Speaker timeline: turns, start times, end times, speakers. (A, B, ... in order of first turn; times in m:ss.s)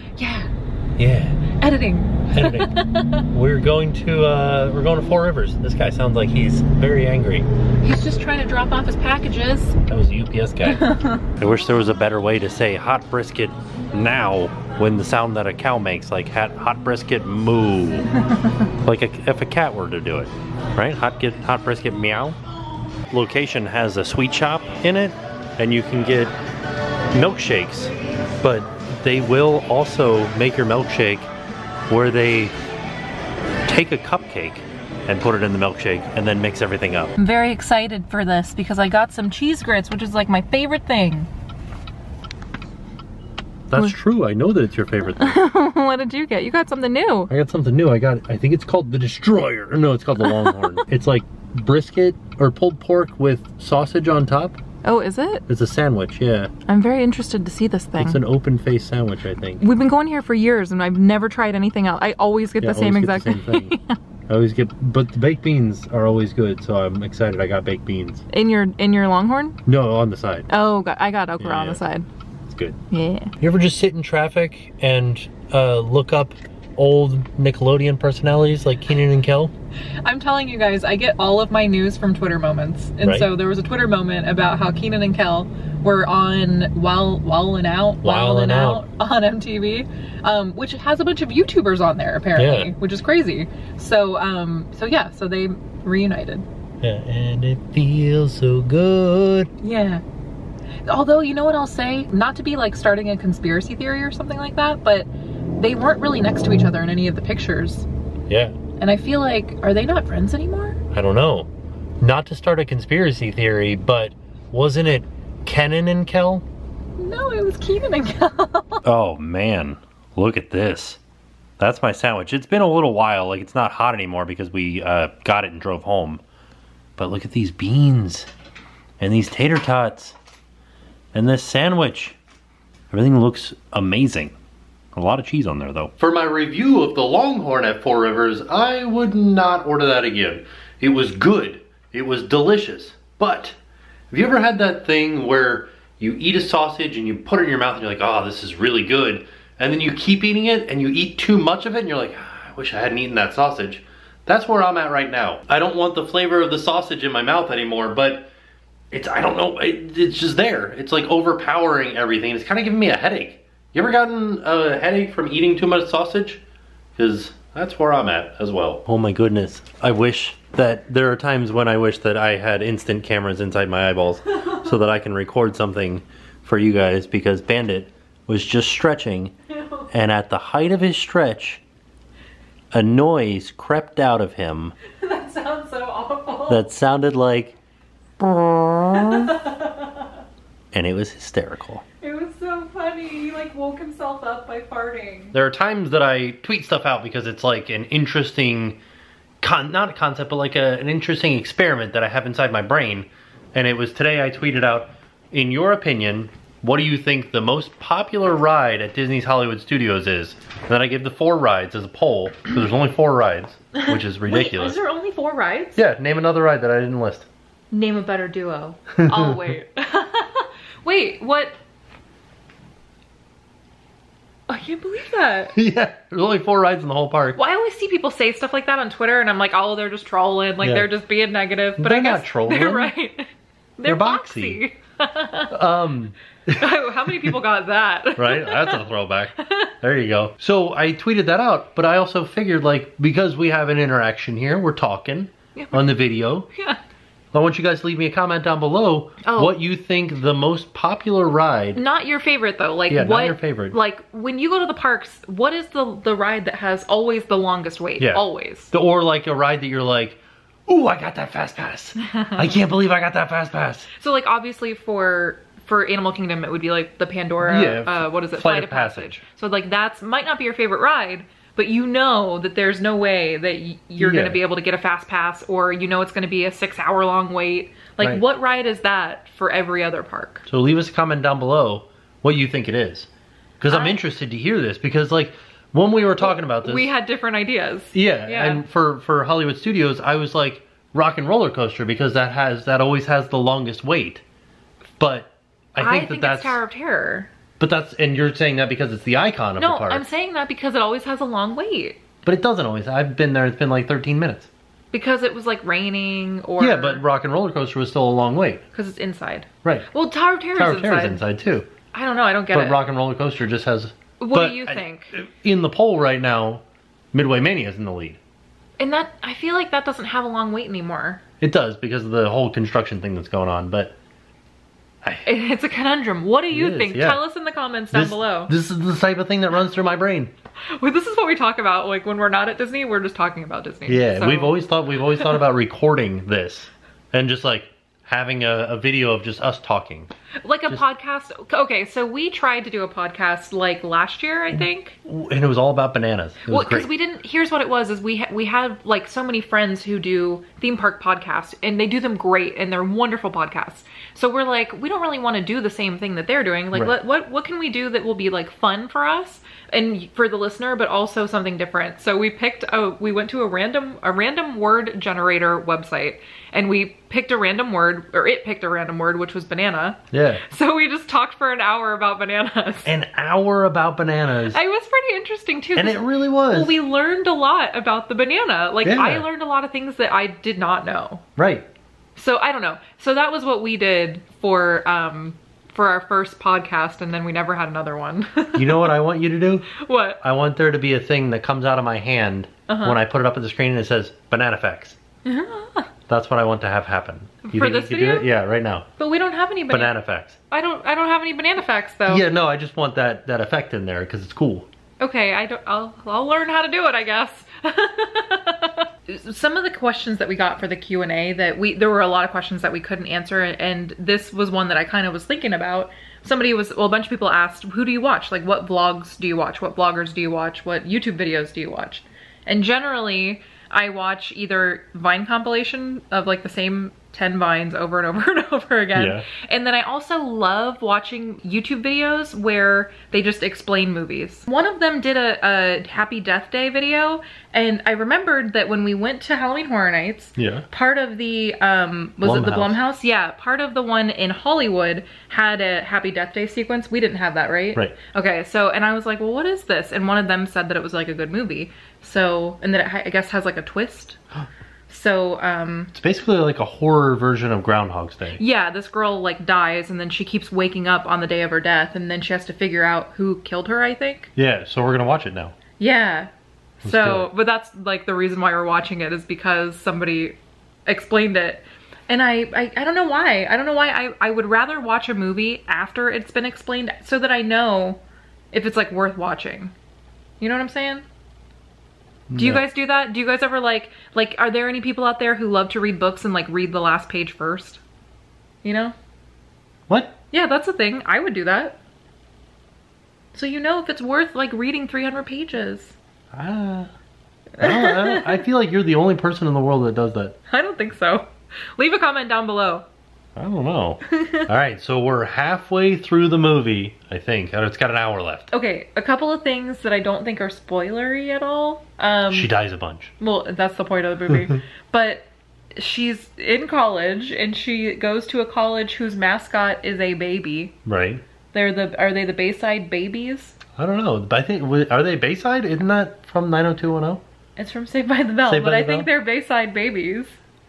0:00.2-0:00.5 A
0:01.0-0:01.5 B
0:01.5-0:03.2 A
0:02.3-0:02.7 B
0:03.3-0:07.5 B
0:07.8-0:09.8 A
0:09.9-0:18.1 B
0:10.6-0:11.3 A
0:18.3-0:18.6 A
0:18.8-0:22.4 B
0:23.1-0:26.3 B
0:27.1-0:31.3 B
0:31.9-0:32.5 B
0:33.7-0:37.1 B
0:37.2-0:41.3 A
0:43.7-0:45.4 B
0:45.2-0:47.3 A
0:47.3-0:54.6 B
0:50.2-0:50.8 A
0:54.8-0:55.5 A
0:55.5-0:56.5 B
0:56.7-0:58.2 A
0:58.0-0:59.6 B
0:59.6-1:04.0 A
1:02.6-1:03.8 B
1:04.3-1:08.2 B
1:08.3-1:09.6 A
1:09.7-1:10.5 B
1:10.5-1:12.1 A
1:11.4-1:11.8 B
1:12.5-1:12.8 B
1:12.9-1:13.4 A
1:13.4-1:19.5 B
1:20.0-1:36.5 A
1:23.0-1:23.3 B
1:28.0-1:28.8 B
1:32.4-1:32.7 B
1:36.8-1:39.5 B
1:39.6-1:40.0 A
1:40.9-1:47.9 A
1:48.3-1:48.6 B
1:48.8-1:50.8 A
1:50.9-1:51.5 B
1:52.0-1:56.5 B
1:57.0-1:58.8 A
1:58.8-2:01.0 B
2:01.6-2:06.2 B
2:07.0-2:08.3 B
2:09.0-2:10.2 B
2:11.1-2:12.2 B
2:12.9-2:14.4 B
2:14.9-2:23.6 B
2:24.1-2:38.3 B
2:38.9-2:46.4 B
2:47.0-2:59.3 B
2:59.9-3:01.6 B
3:02.7-3:04.8 B
3:05.0-3:06.6 A
3:06.5-3:07.6 B
3:08.2-3:09.3 B
3:08.9-3:10.1 A
3:10.7-3:11.8 B
3:12.0-3:15.4 A
3:15.3-3:18.8 B
3:19.4-3:34.8 B
3:33.8-3:35.8 A
3:35.8-3:37.3 B
3:37.7-3:41.6 A
3:39.0-3:39.4 B
3:44.5-3:45.5 A
3:45.5-3:47.4 B
3:47.4-3:55.5 A
3:50.6-3:50.9 B
3:51.8-3:52.9 B
3:53.8-3:54.6 B
3:55.5-3:56.6 B
3:56.5-3:58.9 A
3:58.2-4:06.5 B
3:59.4-3:59.7 A
4:05.6-4:05.8 A
4:07.3-4:11.8 B
4:09.2-4:09.6 A
4:11.7-4:18.7 A
4:12.9-4:13.8 B
4:18.0-4:23.9 B
4:22.0-4:22.5 A
4:23.9-4:40.4 A
4:27.4-4:29.2 B
4:34.0-4:34.4 B
4:40.5-4:43.1 B
4:43.6-4:46.9 B
4:43.7-4:44.0 A
4:46.2-4:48.6 A
4:47.9-4:54.2 B
4:55.0-4:56.6 B
4:55.8-4:57.3 A
4:57.6-5:00.0 B
4:59.6-5:02.0 A
5:02.2-5:04.5 B
5:04.9-5:07.0 A
5:06.6-5:08.6 B
5:08.7-5:11.2 A
5:10.6-5:11.7 B
5:11.9-5:12.8 A
5:12.5-5:18.2 B
5:14.2-5:15.1 A
5:18.8-5:21.2 A
5:21.4-5:23.9 B
5:25.2-5:28.5 A
5:26.5-5:27.2 B
5:27.9-5:30.3 B
5:30.8-5:35.4 A
5:33.9-5:40.1 B
5:40.4-5:45.0 A
5:44.5-5:46.9 B
5:46.5-6:12.9 A
6:10.1-6:10.4 B
6:12.8-6:14.6 B
6:14.5-6:21.2 A
6:15.8-6:16.8 B
6:18.8-6:19.3 B
6:21.4-6:21.7 B
6:22.2-6:29.0 A
6:28.6-6:29.7 B
6:29.7-6:30.2 A
6:30.2-6:35.0 B
6:32.7-6:33.0 A
6:35.2-6:35.9 A
6:36.1-6:38.9 B
6:37.4-6:38.3 A
6:39.0-6:40.0 A
6:39.7-6:40.4 B
6:40.5-6:42.2 A
6:42.1-6:44.7 B
6:45.0-7:34.2 A
7:09.0-7:09.2 B
7:20.4-7:20.7 B
7:22.2-7:22.8 B
7:34.9-7:35.9 A
7:35.9-7:38.4 B
7:38.4-7:44.3 A
7:44.4-7:45.6 B
7:45.8-7:58.0 A
7:46.8-7:47.3 B
7:58.5-7:59.7 A
8:00.4-8:01.0 A
8:02.3-8:02.6 B
8:02.4-8:07.8 A
8:08.6-8:09.0 A
8:09.9-8:10.1 B
8:10.3-8:11.8 A
8:13.3-8:16.0 A
8:16.3-8:16.9 B
8:17.6-8:18.5 A
8:17.6-8:20.4 B
8:20.5-8:22.9 A
8:23.4-8:28.5 B
8:24.0-8:24.5 A
8:28.5-8:32.5 A
8:32.3-8:33.1 B
8:33.2-8:40.7 A
8:40.8-8:41.2 B
8:41.5-8:43.6 A
8:43.8-8:47.2 B
8:47.6-8:50.4 A
8:48.5-8:49.1 B